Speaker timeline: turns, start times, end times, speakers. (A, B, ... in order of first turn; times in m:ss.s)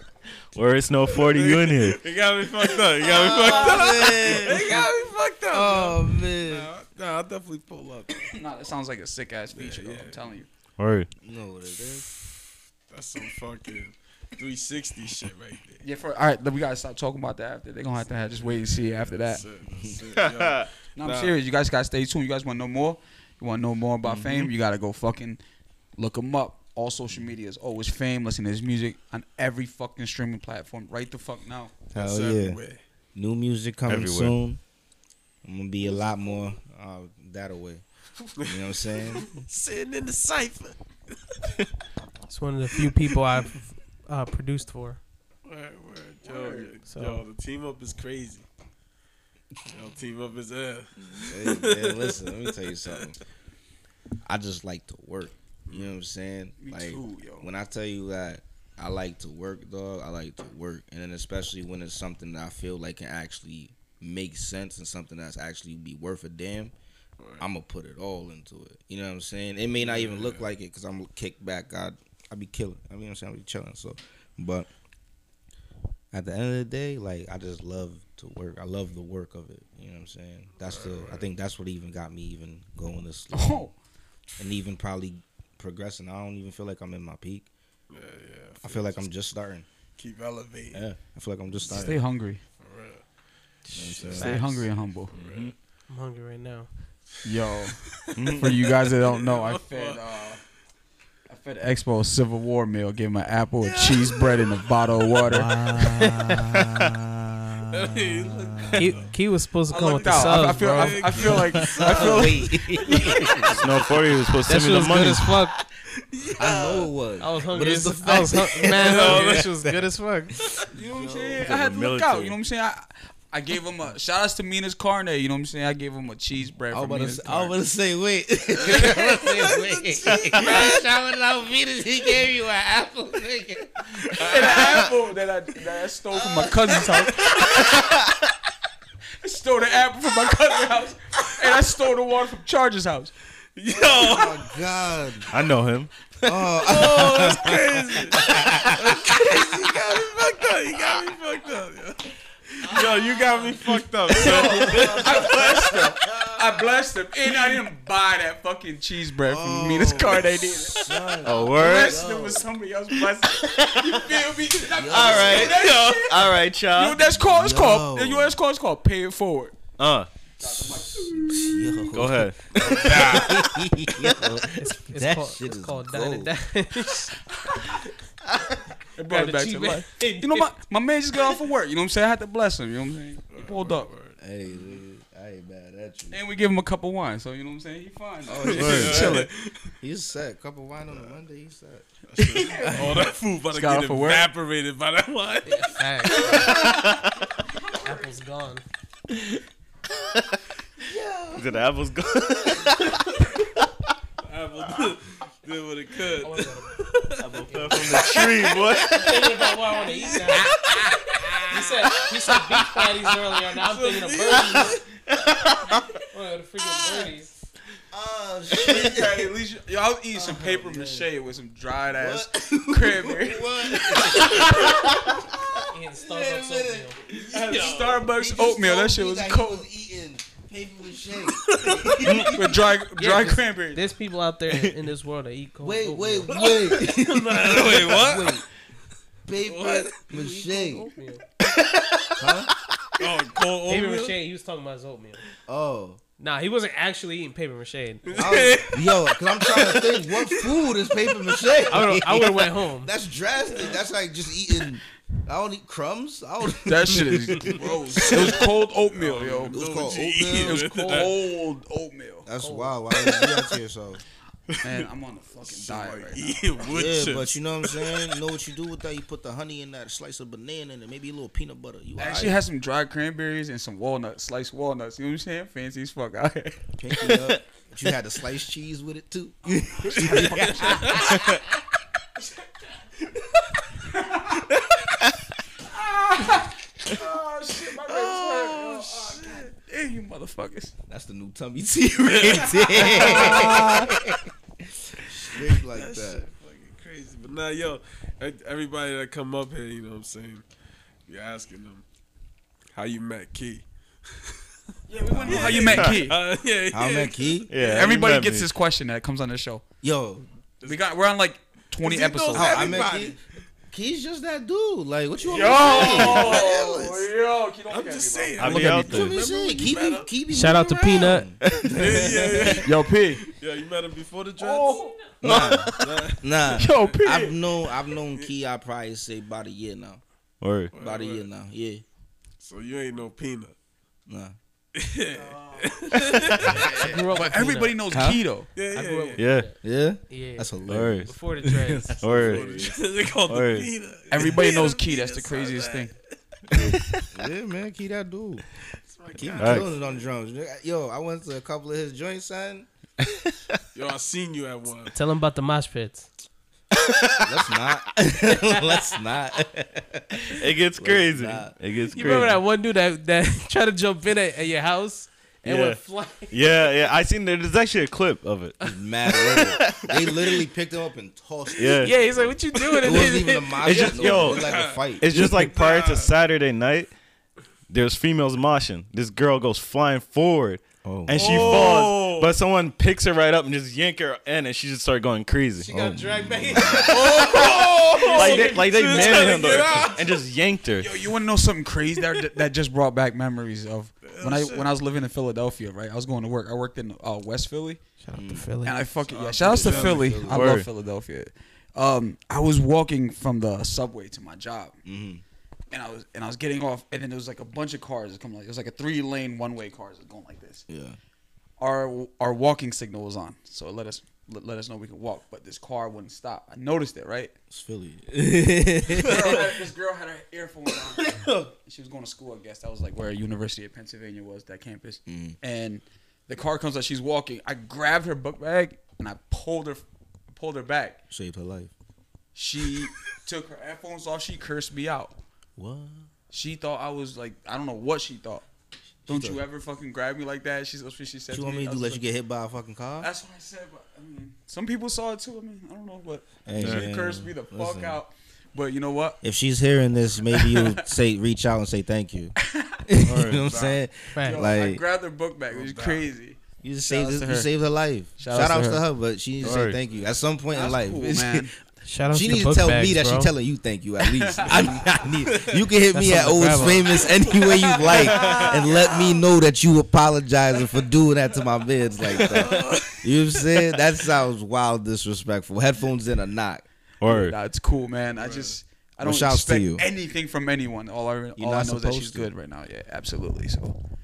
0:00.5-0:02.0 A
0:01.1-0:08.3 B
0:03.0-0:04.0 C
0:03.1-0:04.9 D
0:05.5-0:06.7 D
0:08.3-0:10.5 C
0:09.5-0:10.4 B
0:10.8-0:11.1 A
0:11.2-0:12.1 D
0:12.9-0:15.8 B
0:15.8-0:19.4 C
0:18.4-0:21.3 B
0:20.2-0:20.6 A
0:21.0-0:25.4 C
0:24.0-0:24.5 D
0:26.0-0:31.8 C
0:31.9-0:32.8 B
0:31.9-0:32.6 D
0:33.1-0:34.6 D
0:33.9-0:34.4 A
0:35.4-0:37.8 D
0:35.8-0:36.6 B
0:38.4-0:40.8 B
0:38.4-0:39.4 D
0:42.3-0:45.0 E
0:45.4-0:48.5 B
0:46.2-0:46.7 C
0:46.8-0:47.2 E
0:49.6-0:53.1 B
0:51.2-0:53.2 D
0:54.2-1:06.7 D
0:55.7-0:56.0 B
0:56.6-0:57.5 C
1:07.2-1:07.5 B
1:07.4-1:14.7 D
1:09.8-1:10.5 B
1:16.1-1:23.7 D
1:20.6-1:21.3 B
1:23.3-1:23.7 C
1:24.4-1:27.5 D
1:27.9-1:29.1 B
1:28.6-1:29.6 D
1:30.0-1:30.8 B
1:30.7-1:32.0 D
1:31.6-1:32.0 B
1:31.7-1:32.4 C
1:32.6-1:33.0 B
1:33.6-1:34.7 E
1:33.7-1:34.6 D
1:33.8-1:34.3 B
1:34.1-1:35.1 C
1:35.1-1:35.5 A
1:35.1-1:35.5 B
1:35.9-1:36.7 E
1:37.2-1:40.4 C
1:38.2-1:38.5 A
1:39.0-1:40.0 B
1:41.3-1:45.5 C
1:43.6-1:44.3 B
1:45.3-1:46.6 A
1:45.7-1:46.3 E
1:47.7-1:49.1 B
1:48.7-1:51.3 E
1:49.7-1:53.5 C
1:50.1-1:53.8 B
1:51.4-1:53.6 D
1:53.5-1:55.4 A
1:54.4-1:55.5 E
1:56.0-1:56.9 B
1:56.4-1:59.8 D
1:57.2-2:00.4 E
1:58.7-1:59.5 B
2:00.7-2:01.5 D
2:00.7-2:07.6 C
2:01.4-2:02.4 A
2:06.7-2:14.9 D
2:08.5-2:10.8 B
2:14.2-2:14.8 B
2:14.2-2:17.9 C
2:16.2-2:18.1 D
2:19.2-2:23.1 C
2:23.6-2:24.7 B
2:23.7-2:25.3 D
2:25.3-2:25.9 A
2:26.2-2:29.7 D
2:26.5-2:32.1 B
2:32.6-2:35.6 B
2:33.5-2:36.6 D
2:34.1-2:49.6 C
2:39.2-2:42.5 D
2:41.2-2:42.0 A
2:43.4-2:44.2 A
2:44.6-2:45.8 D
2:44.9-2:47.0 A
2:45.6-2:45.9 B
2:47.0-2:48.4 D
2:49.8-2:50.1 A
2:50.4-2:52.0 C
2:50.4-2:56.3 D
2:51.9-2:52.5 A
2:52.5-2:53.5 B
2:52.6-2:53.1 C
2:54.5-2:57.1 E
2:59.0-3:03.9 C
2:59.0-3:00.5 E
3:03.3-3:04.8 B
3:04.2-3:06.2 D
3:06.1-3:09.3 C
3:08.3-3:09.3 D
3:08.4-3:09.5 B
3:08.5-3:09.1 A
3:09.8-3:13.1 D
3:10.9-3:11.2 B
3:12.1-3:16.5 B
3:12.3-3:14.3 C
3:15.4-3:16.7 E
3:16.4-3:17.1 A
3:17.7-3:18.1 C
3:17.8-3:18.6 E
3:20.8-3:21.6 D
3:21.3-3:23.3 A
3:24.2-3:27.2 B
3:26.2-3:28.2 E
3:27.2-3:29.4 A
3:27.8-3:28.7 D
3:27.9-3:28.2 B
3:28.8-3:30.5 E
3:29.9-3:30.5 B
3:30.3-3:31.9 D
3:31.5-3:34.8 E
3:32.5-3:32.8 D
3:33.6-3:34.8 B
3:36.1-3:37.3 E
3:36.8-3:37.1 D
3:37.9-3:39.3 D
3:38.5-3:45.0 C
3:40.1-3:41.1 D
3:41.9-3:52.6 D
3:45.7-3:47.0 E
3:47.1-3:48.1 B
3:47.2-3:49.7 C
3:51.2-3:52.3 B
3:52.2-3:53.8 C
3:53.0-3:56.9 E
3:55.6-3:58.4 D
3:56.3-3:58.4 B
3:59.2-4:00.9 D
3:59.3-3:59.9 B
4:00.1-4:01.2 E
4:02.2-4:02.5 D
4:03.0-4:04.2 B
4:03.7-4:05.2 E
4:05.5-4:06.0 D
4:06.2-4:08.4 E
4:08.0-4:11.5 B
4:08.1-4:18.5 D
4:11.7-4:12.9 E
4:13.5-4:13.8 B
4:16.6-4:19.6 C
4:17.4-4:21.2 B
4:19.5-4:20.6 D
4:20.4-4:22.3 C
4:20.6-4:21.0 E
4:22.2-4:24.0 D
4:22.4-4:22.8 E
4:22.9-4:23.5 B
4:24.6-4:24.9 B
4:24.6-4:26.6 C
4:25.4-4:28.2 B
4:26.6-4:32.4 D
4:32.0-4:37.1 C
4:36.8-4:41.4 D
4:39.8-4:41.2 C
4:40.0-4:41.1 B
4:43.8-4:44.5 C
4:45.6-4:50.7 C
4:47.8-4:49.5 B
4:50.9-4:54.2 D
4:52.0-4:53.8 B
4:52.7-4:53.9 C
4:54.9-4:56.2 D
4:55.3-5:00.4 B
5:01.1-5:01.8 B
5:02.7-5:04.3 B
5:04.9-5:06.2 C
5:05.1-5:05.9 D
5:05.1-5:07.8 B
5:06.7-5:07.5 D
5:07.5-5:08.5 A
5:07.6-5:09.6 C
5:09.8-5:10.2 D
5:10.6-5:12.9 C
5:11.8-5:13.2 B
5:12.3-5:17.1 D
5:15.2-5:18.9 C
5:15.6-5:16.4 B
5:17.7-5:20.1 B
5:18.4-5:19.2 A
5:18.7-5:22.7 D
5:20.3-5:21.3 E
5:21.4-5:21.9 A
5:21.7-5:26.9 B
5:22.6-5:23.2 C
5:24.4-5:25.7 C
5:25.2-5:30.0 D
5:26.5-5:27.4 C
5:30.4-5:30.7 A
5:30.7-5:31.3 B
5:30.7-5:31.8 D
5:32.4-5:33.6 B
5:34.1-5:34.3 D
5:34.7-5:36.7 B
5:35.1-5:38.5 C
5:36.4-5:37.0 D
5:36.6-5:37.9 E
5:37.9-5:38.2 D
5:38.5-5:39.2 B
5:38.7-5:42.3 E
5:39.2-5:39.5 A
5:39.6-5:42.7 D
5:40.7-5:41.1 A
5:42.0-5:42.7 A
5:42.0-5:45.9 B
5:43.2-5:43.7 A
5:44.1-5:45.9 C
5:46.5-5:47.0 A
5:47.1-5:48.4 D
5:48.8-5:50.1 B
5:49.1-5:52.7 D
5:49.4-5:49.6 A
5:53.7-5:54.9 B
5:54.9-5:56.1 E
5:57.2-6:02.3 D
6:00.3-6:02.4 A
6:01.9-6:06.5 E
6:05.4-6:08.6 A
6:08.6-6:15.3 D
6:09.2-6:10.1 A
6:11.6-6:11.9 A
6:11.7-6:14.1 E
6:12.8-6:13.0 B
6:13.6-6:16.9 A
6:13.7-6:16.1 B
6:17.7-6:26.0 A
6:20.8-6:21.8 D
6:21.2-6:22.3 B
6:25.6-6:27.5 E
6:25.7-6:27.1 D
6:26.6-6:27.2 A
6:26.8-6:30.1 B
6:28.1-6:30.9 A
6:28.1-6:29.5 E
6:30.8-6:37.8 C
6:34.0-6:34.7 B
6:38.0-6:38.8 E
6:38.1-6:38.5 D
6:38.6-6:44.8 C
6:39.1-6:40.3 B
6:39.4-6:40.5 D
6:40.3-6:40.7 A
6:44.8-6:45.2 D
6:45.7-6:50.6 C
6:50.7-6:51.0 D
6:51.6-6:57.3 C
6:57.5-6:59.5 D
6:59.0-7:11.0 C
7:05.1-7:05.4 D
7:11.1-7:11.7 D
7:12.3-7:15.2 C
7:15.6-7:16.1 D
7:16.3-7:18.4 C
7:19.1-7:22.0 C
7:19.1-7:19.4 D
7:21.3-7:23.1 D
7:23.0-7:29.2 C
7:26.4-7:28.0 D
7:26.6-7:26.9 A
7:29.2-7:34.8 D
7:30.3-7:30.8 C
7:32.4-7:32.8 C
7:33.0-7:33.5 A
7:33.3-7:33.8 B
7:34.1-7:34.5 E
7:34.2-7:37.5 C
7:35.5-7:36.1 B
7:36.6-7:41.5 D
7:38.2-7:38.8 C
7:39.4-7:39.8 A
7:40.5-7:41.5 C
7:41.8-7:43.3 E
7:42.1-7:56.6 D
7:44.0-7:44.6 C
7:45.2-7:45.6 B
7:45.9-7:47.0 E
7:47.0-7:49.2 B
7:48.1-7:48.7 C
7:52.0-7:53.8 B
7:57.0-7:57.4 A
7:57.0-8:03.8 C
7:58.1-7:58.6 B
7:59.0-7:59.8 D
8:01.4-8:02.3 D